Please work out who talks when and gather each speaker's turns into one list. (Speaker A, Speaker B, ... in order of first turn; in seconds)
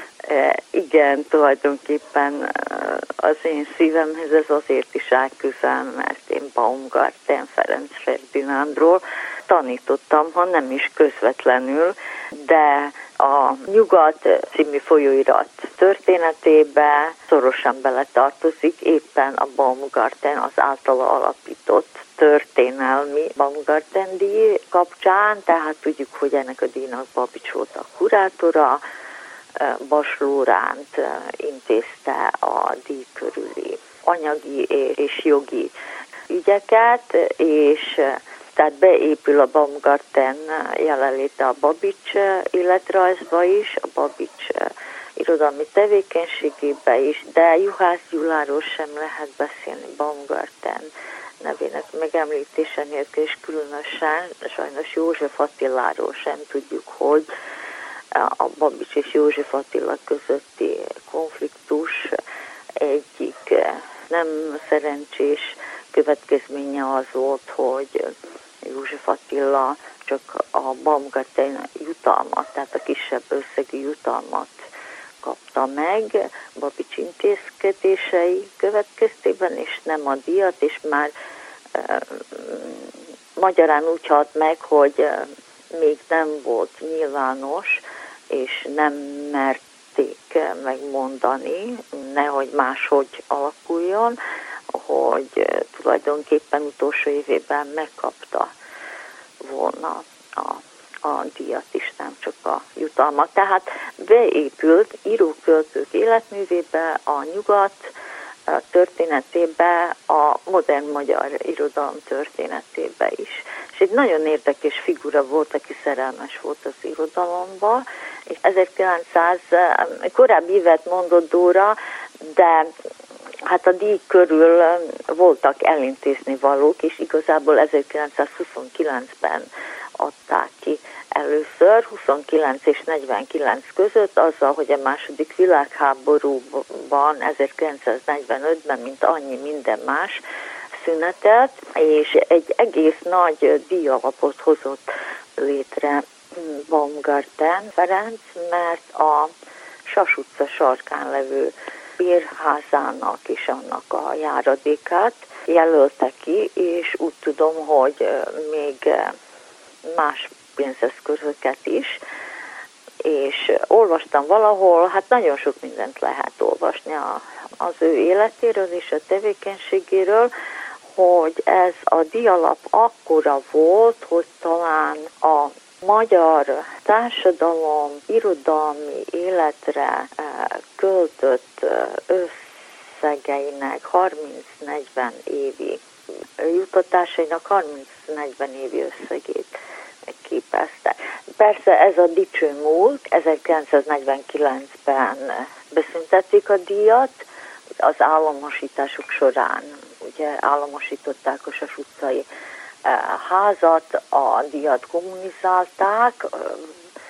Speaker A: 0.2-28.8, 29.6-35.7, 36.3-50.9, 51.4-57.3, 58.1-62.2, 62.8-68.1, 68.7-74.6, 75.2-81.1, 81.8-94.2, 94.7-98.5, 99.4-107.9, 108.5-122.7, 123.5-129.5, 130.0-140.2, 140.8-144.8, 145.4-149.3, 149.9-159.2, 159.9-162.0, 163.0-170.3, 171.0-185.8, 186.4-189.6, 190.1-197.1, 197.8-202.2, 202.8-206.7